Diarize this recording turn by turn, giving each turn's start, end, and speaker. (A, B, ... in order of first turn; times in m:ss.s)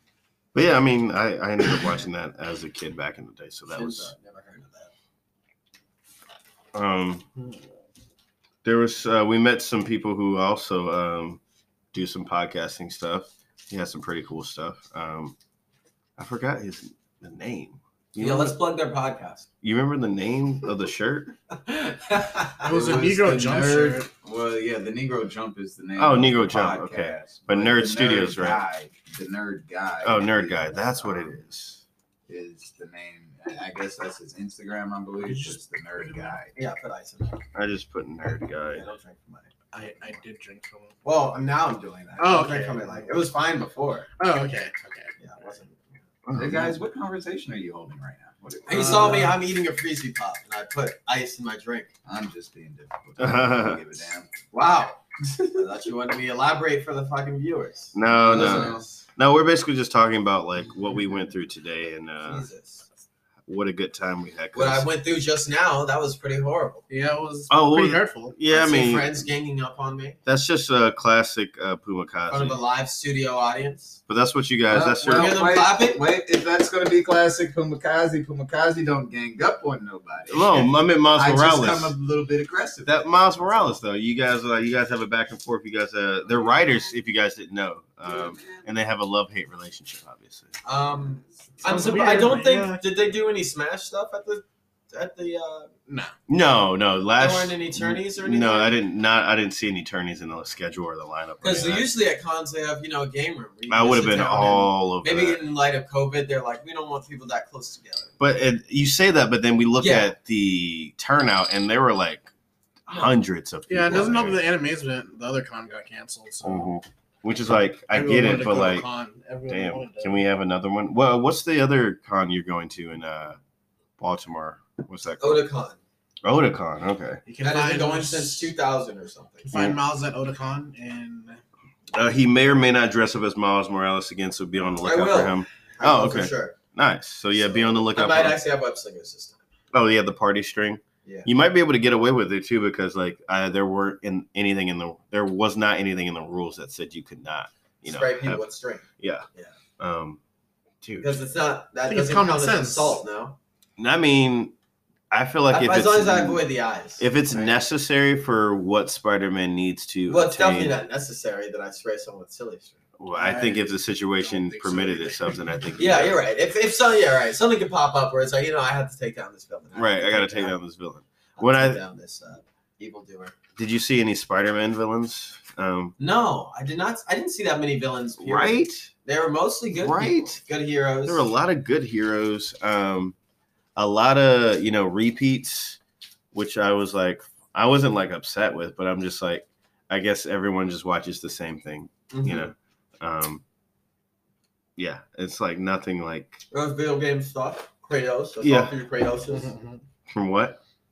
0:00.5-0:04.1 A
0:03.7-0:04.9 B
0:06.7-0:07.3 A
0:08.6-0:11.4 A
0:11.9-0:15.4 A
0:16.2-0:18.6 A
0:18.2-0:19.5 B
0:19.6-0:21.3 A
0:21.5-0:22.6 B
0:22.6-0:24.1 C
0:22.6-0:31.4 D
0:26.0-0:28.6 A
0:30.0-0:31.8 A
0:32.3-0:36.6 D
0:35.2-0:36.4 C
0:36.6-0:37.4 B
0:37.5-0:38.9 A
0:38.7-0:40.2 B
0:39.7-0:41.0 C
0:41.0-0:44.1 B
0:42.2-0:43.1 C
0:44.2-0:45.2 C
0:45.2-0:45.9 B
0:46.3-0:46.8 A
0:46.4-0:49.4 D
0:48.7-0:51.9 B
0:48.7-0:49.3 C
0:52.0-0:54.3 D
0:53.2-0:53.8 A
0:54.5-0:59.0 B
0:57.9-1:02.5 A
0:58.1-0:58.9 D
1:02.2-1:02.9 B
1:03.5-1:04.9 A
1:04.5-1:06.9 B
1:06.9-1:08.4 C
1:07.5-1:09.3 A
1:08.5-1:10.2 B
1:10.2-1:12.6 A
1:12.3-1:14.0 B
1:14.1-1:15.5 A
1:14.7-1:23.8 D
1:15.0-1:16.0 B
1:20.3-1:22.0 A
1:22.9-1:30.6 A
1:26.3-1:26.7 D
1:28.0-1:28.7 D
1:30.6-1:35.7 B
1:31.2-1:32.4 D
1:31.6-1:32.8 C
1:35.9-1:36.2 C
1:36.3-1:41.9 A
1:37.2-1:38.8 B
1:41.4-1:48.2 B
1:43.7-1:45.4 A
1:48.2-1:52.3 A
1:49.8-1:50.1 B
1:52.9-1:54.4 A
1:53.7-1:56.7 C
1:56.4-1:58.9 A
1:57.9-2:00.3 C
1:59.5-2:03.4 A
2:04.0-2:05.5 A
2:05.2-2:05.8 B
2:06.2-2:07.2 A
2:07.3-2:08.5 C
2:07.4-2:09.5 B
2:09.5-2:11.4 C
2:09.5-2:09.8 A
2:11.9-2:18.4 A
2:14.7-2:16.6 B
2:17.3-2:19.4 B
2:19.7-2:29.3 A
2:27.8-2:29.5 B
2:29.8-2:30.2 A
2:30.8-2:31.2 A
2:31.0-2:33.4 B
2:31.9-2:33.0 C
2:33.8-2:34.5 A
2:35.1-2:36.4 A
2:35.5-2:37.6 B
2:37.0-2:40.8 A
2:40.1-2:42.8 B
2:43.0-2:46.2 A
2:43.1-2:43.6 C
2:44.2-2:45.7 C
2:45.8-2:50.6 B
2:49.7-2:51.8 A
2:51.4-2:53.4 B
2:53.6-2:56.0 A
2:56.0-3:01.3 B
2:58.2-2:58.9 A
2:59.7-3:00.4 A
3:01.0-3:03.2 A
3:03.8-3:05.8 A
3:06.3-3:13.4 A
3:12.1-3:12.5 B
3:14.8-3:16.4 A
3:16.5-3:19.5 B
3:18.4-3:18.7 A
3:19.3-3:19.8 C
3:20.1-3:20.6 A